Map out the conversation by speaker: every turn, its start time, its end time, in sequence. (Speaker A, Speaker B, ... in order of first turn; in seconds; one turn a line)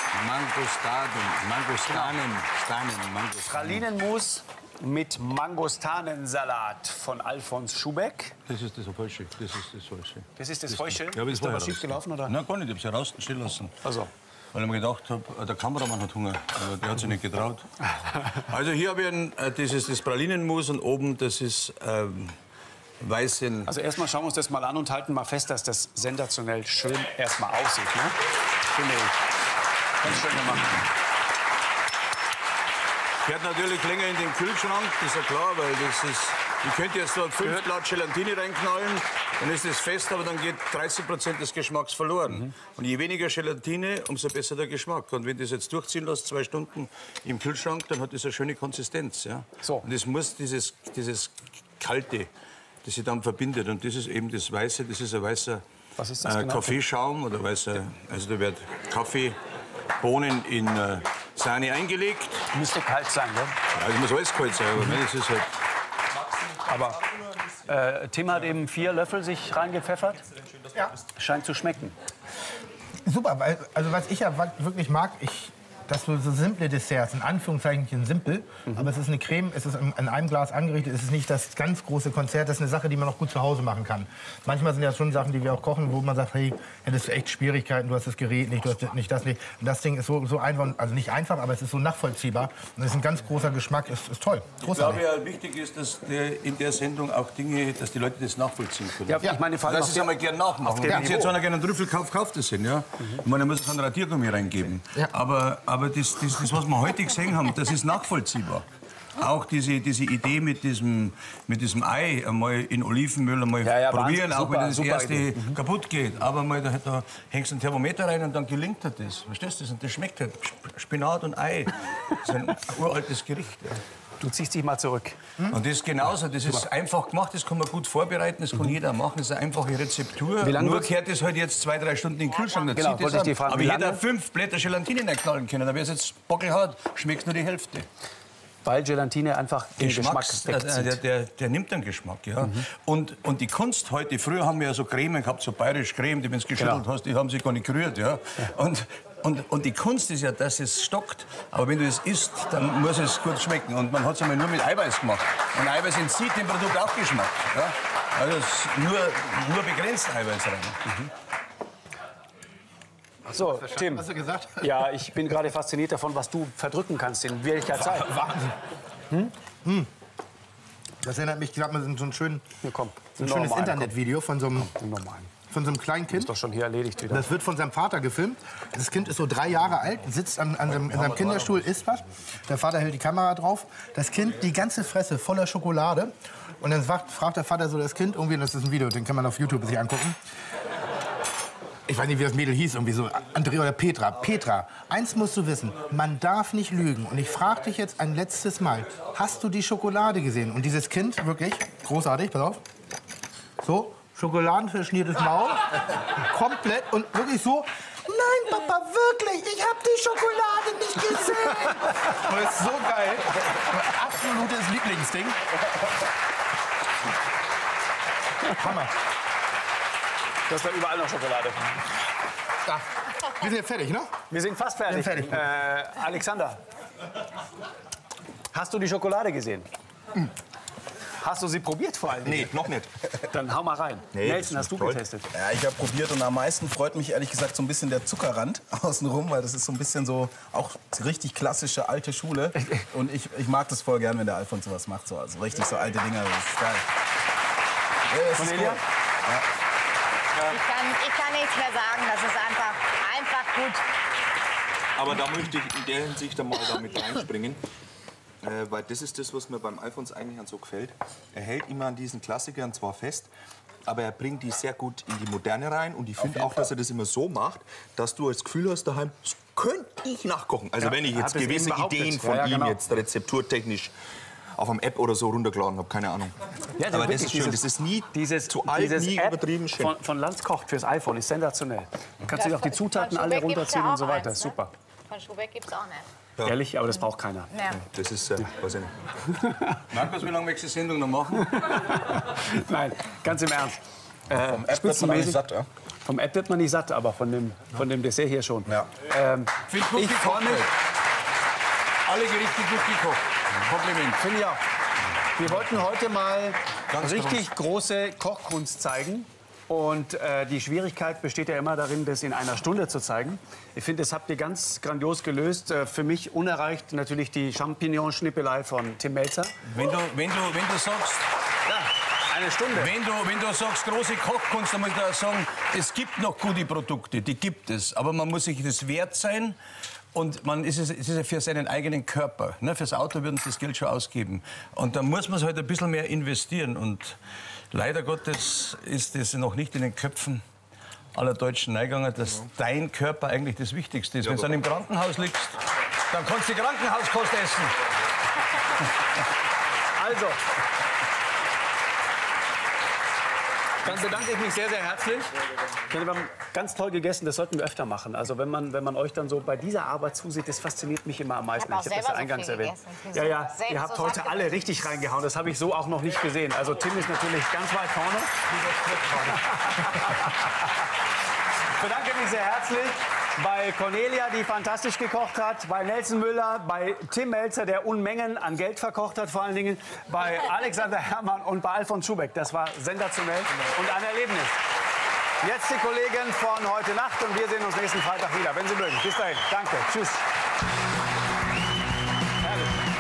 Speaker A: 0.1-3.8
Speaker B: 1.9-2.1
Speaker B: 3.5-8.3
Speaker A: 8.5-13.8
Speaker B: 10.4-12.3
Speaker B: 13.8-14.1
Speaker A: 14.5-17.7
Speaker A: 18.2-22.4
Speaker A: 23.0-23.7
Speaker B: 23.7-28.2
Speaker B: 28.7-29.1
Speaker B: 30.0-30.8
Speaker A: 33.2-52.3
Speaker A: 52.8-55.6
Speaker B: 56.0-56.8
Speaker A: 56.2-59.4
Speaker A: 60.0-62.5
Speaker B: 62.5-63.5
Speaker A: 63.7-65.5
Speaker C: 66.2-67.6
Speaker B: 66.7-67.0
Speaker B: 67.7-70.2
Speaker B: 71.2-72.0
Speaker D: 73.0-95.0
Speaker B: 78.7-78.9
Speaker A: 94.6-108.7
Speaker B: 99.1-101.3
Speaker A: 109.2-123.8
Speaker B: 113.6-115.6
Speaker B: 124.2-125.2
Speaker A: 125.5-137.9
Speaker B: 130.4-130.9
Speaker E: 132.3-132.7
Speaker B: 132.7-134.0
Speaker B: 138.6-141.0
Speaker A: 139.8-160.8
Speaker B: 146.6-146.8
Speaker B: 163.3-168.2
Speaker D: 163.7-164.7
Speaker D: 167.9-168.6
Speaker D: 169.6-169.9
Speaker D: 171.0-172.4
Speaker B: 172.6-173.9
Speaker D: 173.2-174.7
Speaker B: 174.6-175.3
Speaker D: 175.5-176.3
Speaker B: 176.1-177.3
Speaker D: 177.1-190.2
Speaker A: 180.8-181.7
Speaker D: 191.9-202.6
Speaker D: 203.6-215.4
Speaker D: 218.5-218.9
Speaker B: 220.5-221.8
Speaker D: 222.6-224.2
Speaker B: 224.3-226.6
Speaker D: 224.9-225.5
Speaker B: 228.5-229.7
Speaker B: 231.2-232.6
Speaker C: 232.2-232.9
Speaker B: 233.2-235.3
Speaker C: 234.1-235.0
Speaker F: 235.3-246.9
Speaker B: 242.6-242.8
Speaker F: 248.1-249.4
Speaker B: 248.4-248.8
Speaker E: 250.4-253.8
Speaker C: 255.0-257.6
Speaker C: 258.4-263.3
Speaker C: 263.8-273.9
Speaker B: 270.8-272.8
Speaker C: 274.6-279.9
Speaker B: 276.8-284.7
Speaker E: 282.3-284.6
Speaker E: 285.1-286.1
Speaker B: 286.4-287.5
Speaker E: 287.5-287.8
Speaker C: 287.7-288.9
Speaker B: 289.3-289.8
Speaker A: 289.9-291.5
Speaker B: 291.3-295.4
Speaker F: 294.4-295.7
Speaker B: 296.1-300.6
Speaker A: 299.7-300.7
Speaker A: 302.1-304.2
Speaker B: 304.2-304.6
Speaker B: 305.3-319.6
Speaker A: 305.4-305.8
Speaker A: 306.9-307.5
Speaker A: 319.6-321.2
Speaker B: 321.6-322.9
Speaker A: 322.7-329.6
Speaker A: 330.1-337.2
Speaker A: 337.7-340.4
Speaker A: 341.1-345.6
Speaker A: 346.1-347.8
Speaker B: 349.9-350.4
Speaker B: 353.8-355.3
Speaker B: 355.9-368.3
Speaker E: 361.6-364.7
Speaker B: 369.1-370.6
Speaker B: 371.8-384.6
Speaker B: 385.4-390.2
Speaker B: 392.4-392.7